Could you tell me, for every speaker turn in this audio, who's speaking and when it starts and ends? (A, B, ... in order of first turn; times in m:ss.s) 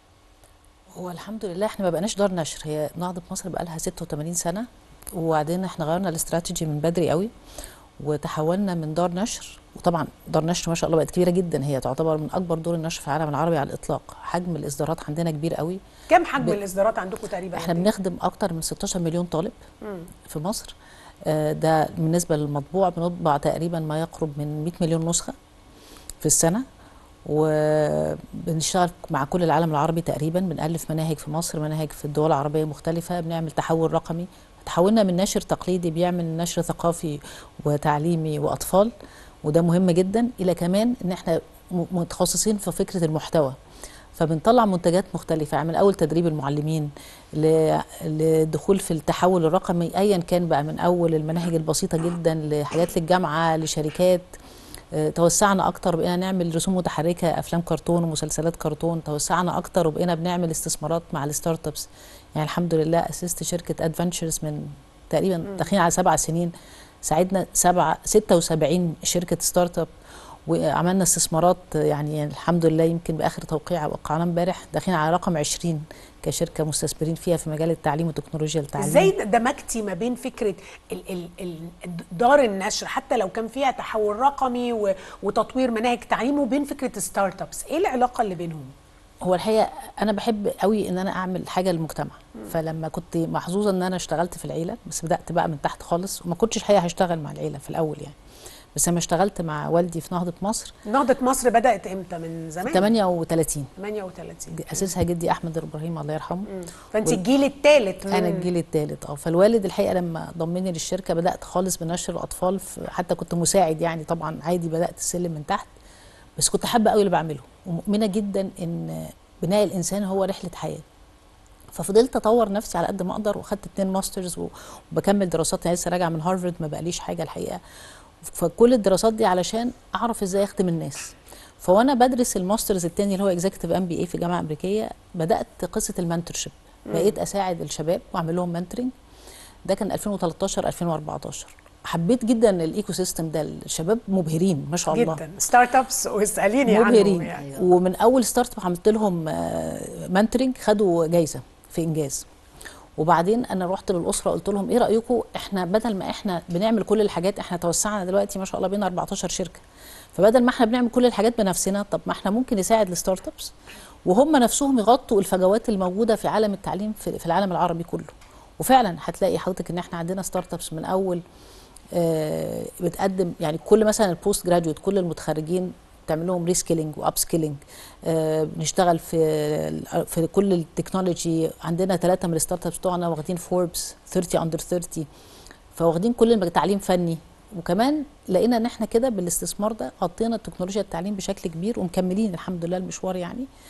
0:01.0-0:07.3 A
0:08.0-0:15.8 A
0:16.1-0:17.9 B
0:17.6-0:19.6 A
0:19.8-0:20.1 B
0:20.3-0:20.8 A
0:21.3-0:25.3 A
0:26.2-0:26.6 A
0:27.3-0:38.9 A
0:39.4-0:43.6 A
0:44.2-0:54.3 A
0:54.9-1:06.5 A
1:07.0-1:09.9 A
1:10.5-1:19.1 A
1:18.8-1:28.7 B
1:29.2-1:38.2 A
1:38.8-1:40.7 A
1:40.9-1:42.9 B
1:42.7-1:43.7 A
1:43.8-1:44.9 B
1:44.6-1:46.5 A
1:46.5-1:48.5 B
1:48.1-1:55.7 A
1:56.4-2:00.8 A
2:01.7-2:07.6 A
2:08.2-2:18.9 A
2:16.9-2:17.2 B
2:19.7-2:25.2 A
2:24.9-2:27.6 B
2:26.7-2:32.3 A
2:33.0-2:39.6 A
2:40.1-2:43.5 A
2:44.1-2:51.2 A
2:51.9-3:05.1 A
3:05.8-3:13.5 A